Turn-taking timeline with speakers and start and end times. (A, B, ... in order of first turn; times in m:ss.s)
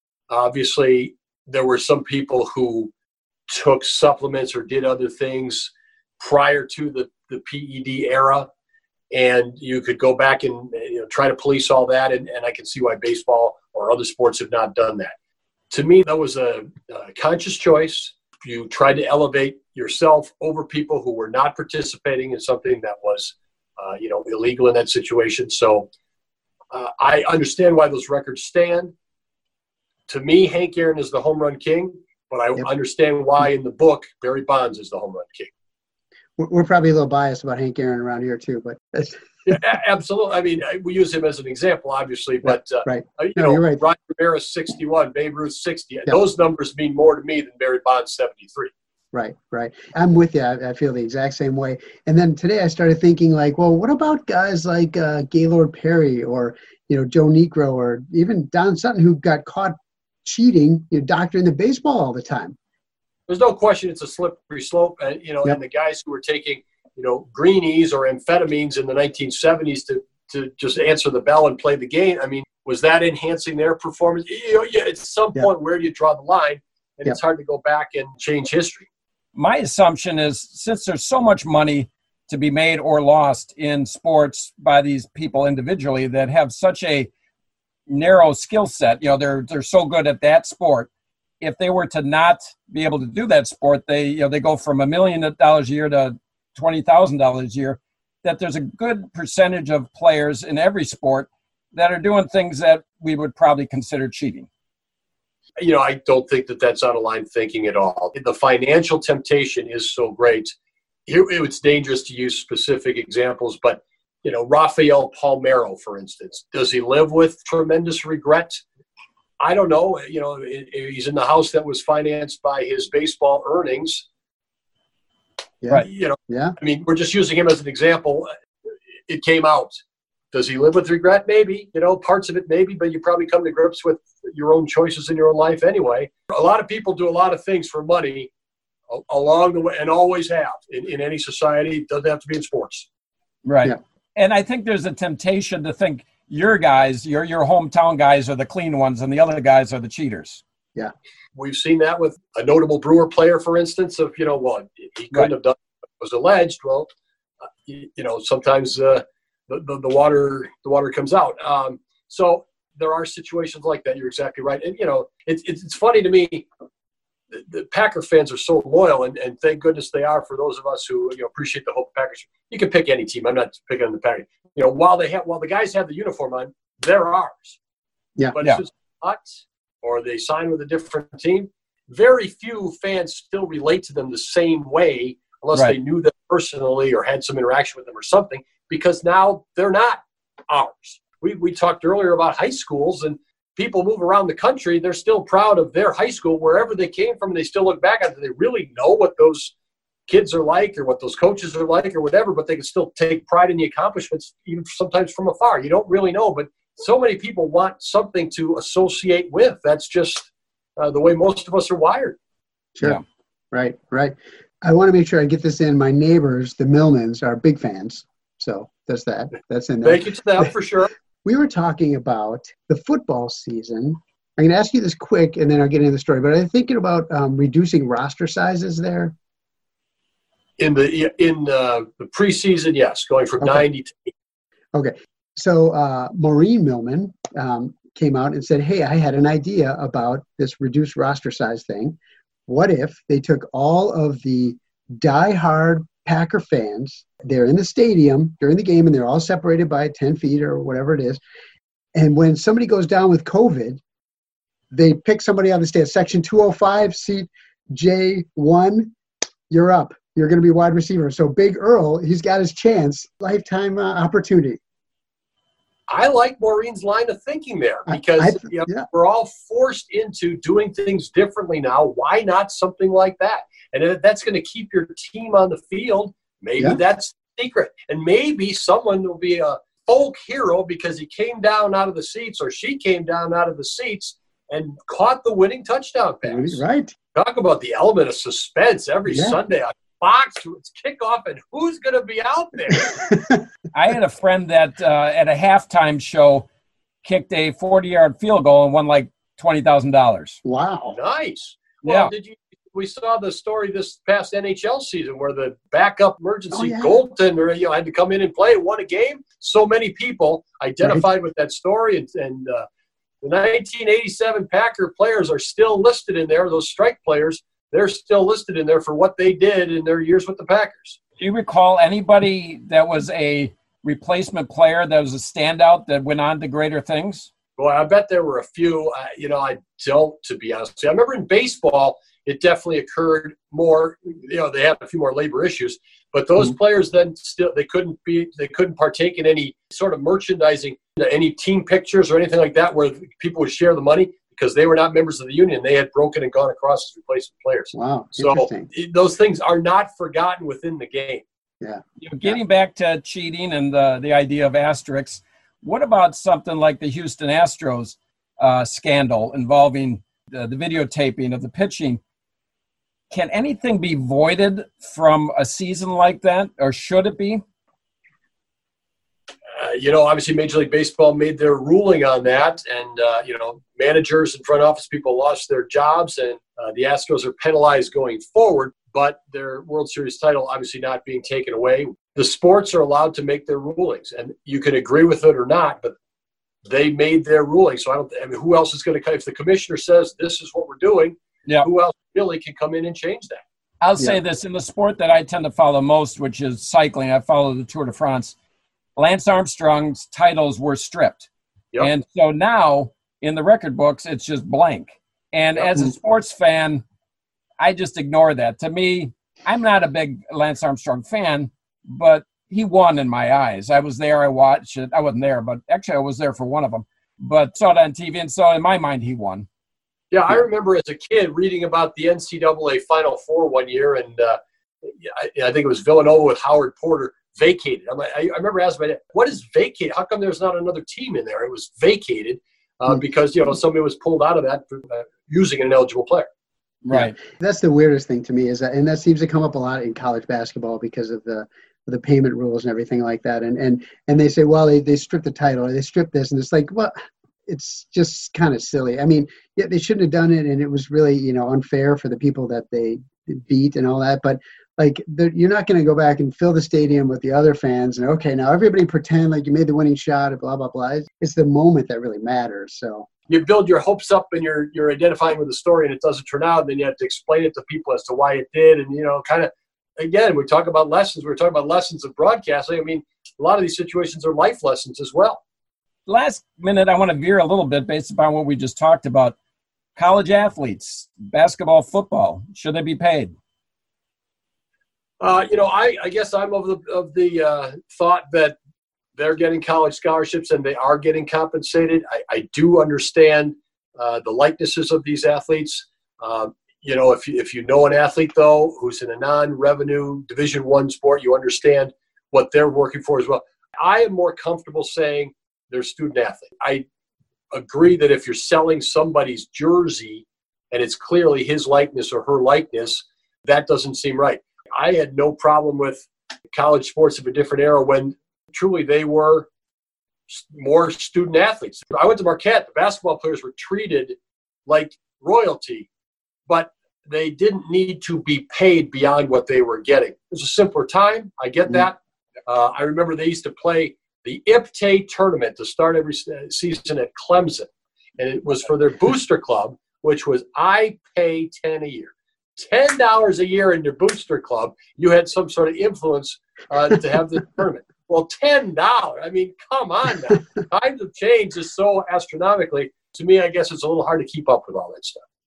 0:00.3-0:02.9 A
0:03.5-0:08.5 A
0:09.1-0:15.1 A
0:15.7-0:25.9 A
0:26.7-0:28.9 A
0:30.1-0:35.5 A
0:36.4-0:39.2 B
0:39.5-0:48.7 A
0:42.4-0:43.8 B
0:49.1-1:02.6 B
1:03.3-1:18.9 A
1:19.4-1:27.1 C
1:27.9-1:30.9 C
1:31.4-1:44.5 C
1:45.6-1:50.5 A
1:51.1-1:58.6 A
1:59.4-2:04.0 A
2:05.6-2:06.6 B
2:05.8-2:08.3 A
2:09.1-2:18.3 A
2:18.9-2:22.9 A
2:23.4-2:30.4 C
2:31.4-2:36.9 A
2:37.6-2:46.5 A
2:47.3-2:57.6 A
2:58.3-3:19.5 A
3:20.1-3:32.2 A
3:33.5-3:40.5 B
3:39.8-3:40.9 A
3:41.2-3:49.1 B
3:50.6-3:54.1 A
3:54.7-4:11.2 B
4:12.0-4:13.8 B
4:14.7-4:18.9 B
4:19.5-4:24.6 B
4:25.9-4:46.6 A
4:27.9-4:28.9 B
4:46.3-4:47.0 B
4:47.1-4:52.9 A
4:49.1-4:49.4 B
4:52.9-4:53.4 B
4:53.7-4:56.5 C
4:57.0-5:00.4 C
5:00.4-5:01.0 B
5:00.9-5:12.7 A
5:01.8-5:02.1 C
5:06.5-5:07.0 B
5:13.2-5:21.0 A
5:21.2-5:27.3 C
5:27.6-5:51.2 A
5:47.7-5:48.7 B
5:51.6-5:52.4 B
5:52.0-6:02.0 C
6:03.1-6:07.4 C
6:09.6-6:25.9 A
6:26.6-6:33.4 A
6:33.8-6:38.4 C
6:39.0-6:41.3 C
6:41.8-6:46.8 C
6:47.6-6:59.5 C
7:00.1-7:16.3 A
7:16.8-7:17.2 C
7:16.9-7:26.9 B
7:27.5-7:43.1 B
7:43.3-7:55.4 A
7:56.1-7:59.4 C
8:00.0-8:03.4 C
8:05.2-8:08.6 A
8:09.2-8:26.8 A
8:27.5-8:39.5 A
8:40.3-8:45.9 A
8:46.5-9:15.2 A